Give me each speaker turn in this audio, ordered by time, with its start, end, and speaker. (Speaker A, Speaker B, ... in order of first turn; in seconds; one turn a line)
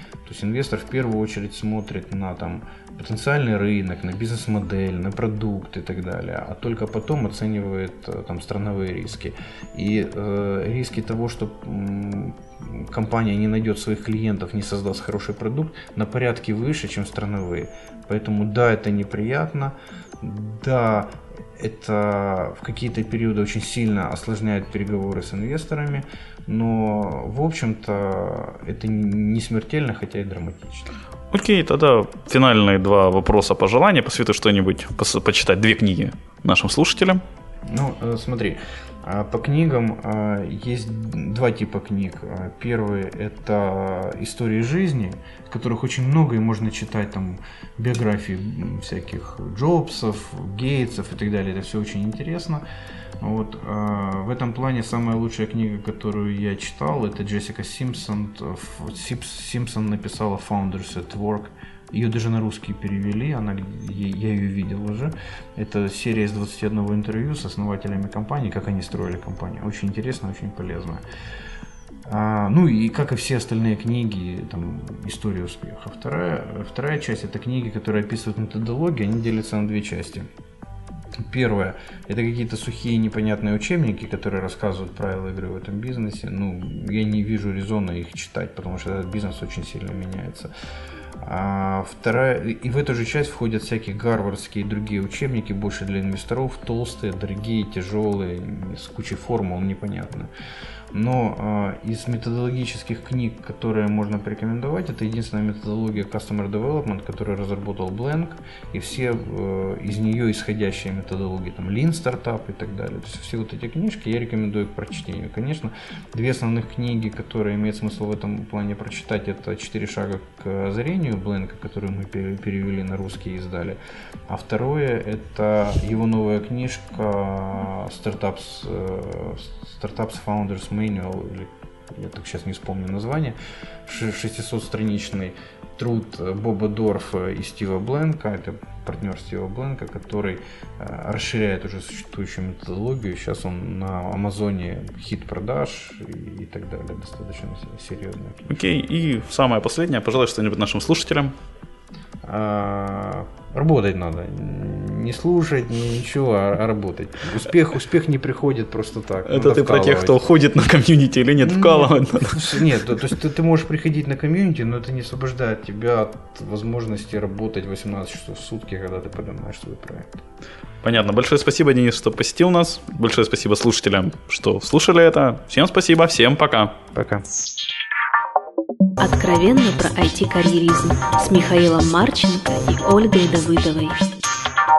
Speaker A: 0.2-30.9
Speaker B: 31.3-37.2
Speaker A: 37.6-52.6
Speaker A: 53.2-71.0
Speaker A: 72.0-80.3
Speaker A: 81.2-90.5
Speaker A: 91.2-100.3
Speaker A: 100.9-148.5
Speaker B: 148.5-151.3
Speaker A: 152.2-160.2
Speaker B: 159.2-162.7
Speaker A: 161.4-170.2
Speaker B: 170.8-176.8
Speaker A: 176.9-177.2
Speaker C: 179.0-184.0